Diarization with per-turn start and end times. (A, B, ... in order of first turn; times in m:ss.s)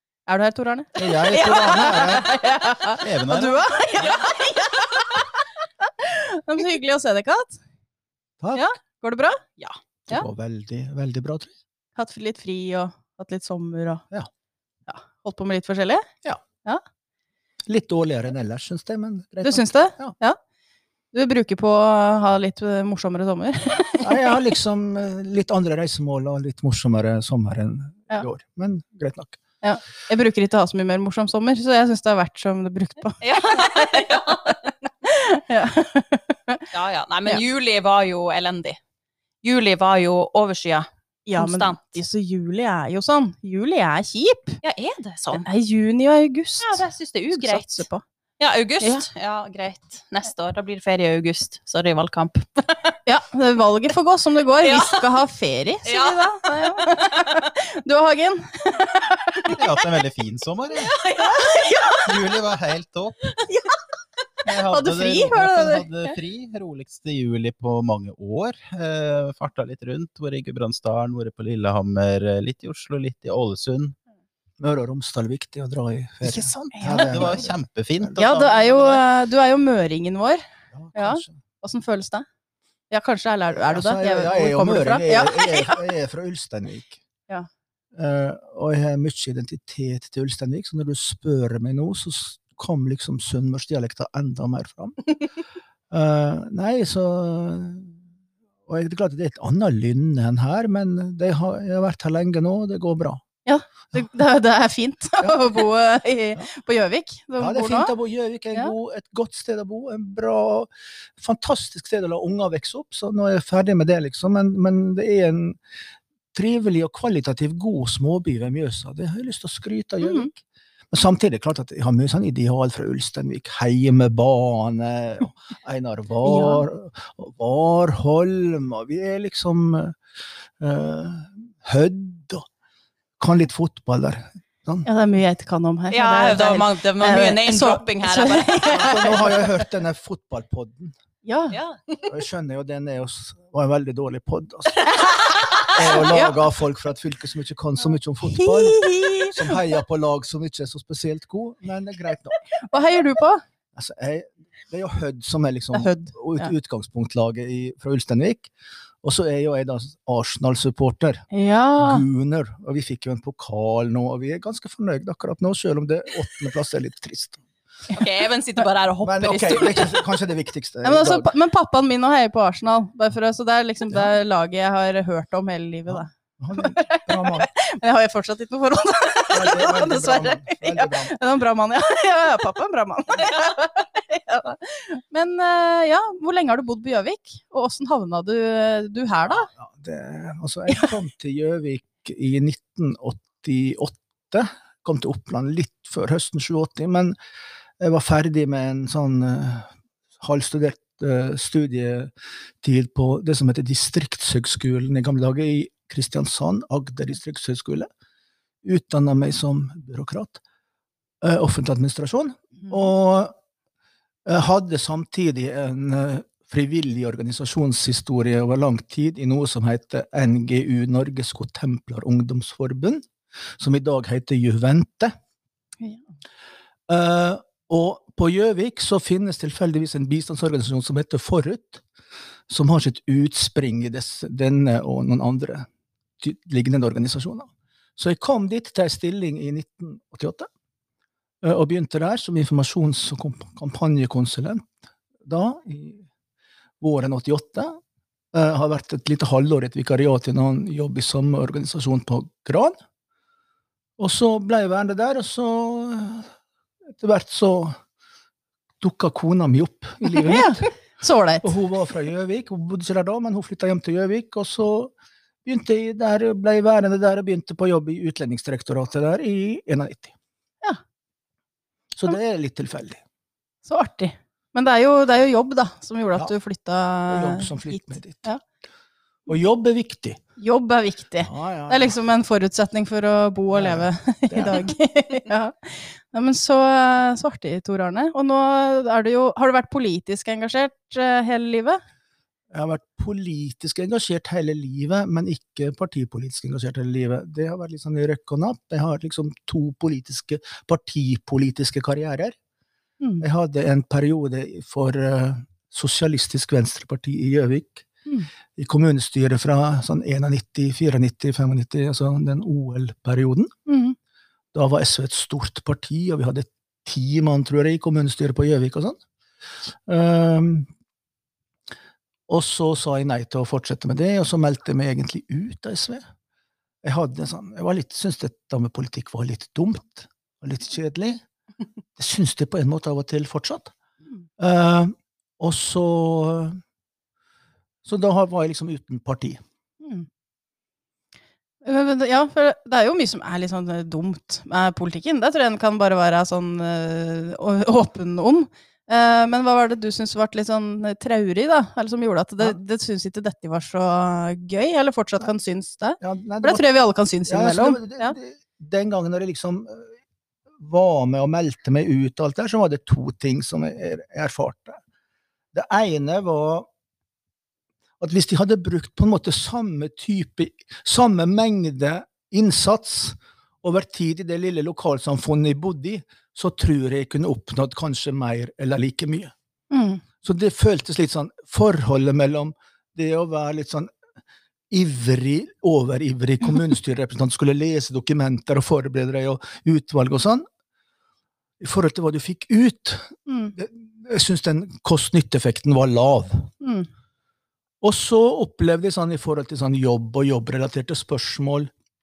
0:00.3-0:05.3 A
0:01.0-0:02.2 B
0:01.4-0:02.0 C
0:03.0-0:03.8 D
0:04.0-0:04.5 C
0:05.8-0:07.6 A
0:08.4-0:08.7 B
0:08.5-0:10.2 A
0:10.1-0:11.5 B
0:12.0-0:14.0 A
0:14.9-0:16.1 A
0:17.6-0:20.1 B
0:19.4-0:20.4 A
0:21.1-0:24.3 A
0:24.0-0:29.4 B
0:29.6-0:34.5 A
0:33.2-0:34.6 C
0:35.0-0:36.7 A
0:36.7-0:38.8 C
0:39.4-0:42.0 C
0:41.2-0:44.6 A
0:44.6-0:45.4 C
0:45.3-0:48.0 A
0:46.6-0:47.8 C
0:48.4-0:52.9 C
0:48.8-0:49.0 A
0:53.0-0:59.6 A
0:54.6-0:55.1 C
0:55.8-0:56.3 C
0:59.5-1:00.9 D
1:00.8-1:01.6 C
1:01.2-1:02.1 A
1:02.0-1:03.4 D
1:03.4-1:03.8 A
1:04.4-1:14.0 D
1:04.5-1:06.1 A
1:14.6-1:18.4 B
1:16.2-1:18.9 D
1:18.2-1:20.4 A
1:20.7-1:21.3 B
1:20.9-1:22.2 A
1:22.9-1:25.8 A
1:23.5-1:27.0 B
1:27.9-1:35.0 B
1:35.9-1:38.0 B
1:38.7-1:43.2 B
1:43.4-1:47.9 A
1:47.4-1:55.6 B
1:56.3-2:10.0 B
2:00.0-2:00.3 A
2:06.2-2:06.6 A
2:10.6-2:12.4 B
2:13.2-2:14.9 B
2:14.8-2:19.5 A
2:15.9-2:19.4 C
2:18.7-2:20.9 B
2:21.2-2:21.6 A
2:21.5-2:22.1 C
2:22.1-2:24.8 B
2:25.1-2:26.4 A
2:25.7-2:32.4 B
2:28.2-2:29.5 A
2:32.6-2:33.4 A
2:33.7-2:38.5 B
2:35.7-2:36.5 A
2:39.0-2:41.2 B
2:41.3-2:42.0 A
2:41.8-2:47.4 B
2:47.9-2:50.0 C
2:49.0-2:51.3 B
2:50.8-3:09.5 A
2:55.9-2:57.5 B
2:59.3-3:01.2 B
3:09.3-3:17.1 B
3:17.8-3:27.9 B
3:28.6-3:30.4 B
3:31.2-3:33.3 B
3:34.2-3:43.1 B
3:43.6-3:45.1 B
3:46.9-3:51.8 B
3:52.5-3:55.7 B
3:56.2-4:00.5 B
4:01.4-4:04.7 B
4:05.2-4:06.0 B
4:06.8-4:07.8 B
4:08.3-4:12.8 B
4:14.0-4:16.3 B
4:16.9-4:17.8 B
4:18.8-4:20.7 B
4:20.0-4:21.5 A
4:21.4-4:24.9 B
4:25.4-4:30.1 B
4:31.9-4:33.0 B
4:33.6-4:38.4 A
4:37.1-4:38.2 B
4:39.3-4:40.2 B
4:40.4-4:51.8 A
4:41.2-4:42.0 B
4:43.5-4:44.6 B
4:52.5-5:02.4 B
5:03.2-5:07.8 B
5:08.5-5:13.5 B
5:13.7-5:14.0 A
5:14.5-5:19.0 B
5:19.7-5:20.7 B
5:22.3-5:26.0 B
5:26.8-5:31.2 B
5:32.0-5:33.7 B
5:34.4-5:36.6 B
5:37.8-5:39.4 B
5:39.8-5:40.1 A
5:41.6-5:58.2 A
5:56.0-5:56.6 B
5:57.3-5:59.9 B
6:00.6-6:04.8 B
6:05.5-6:06.7 B
6:08.0-6:19.3 B
6:19.7-6:20.0 A
6:20.2-6:23.9 B
6:24.7-6:30.4 B
6:31.6-6:36.5 B
6:33.3-6:33.5 A
6:36.6-6:36.9 A
6:37.8-6:41.7 B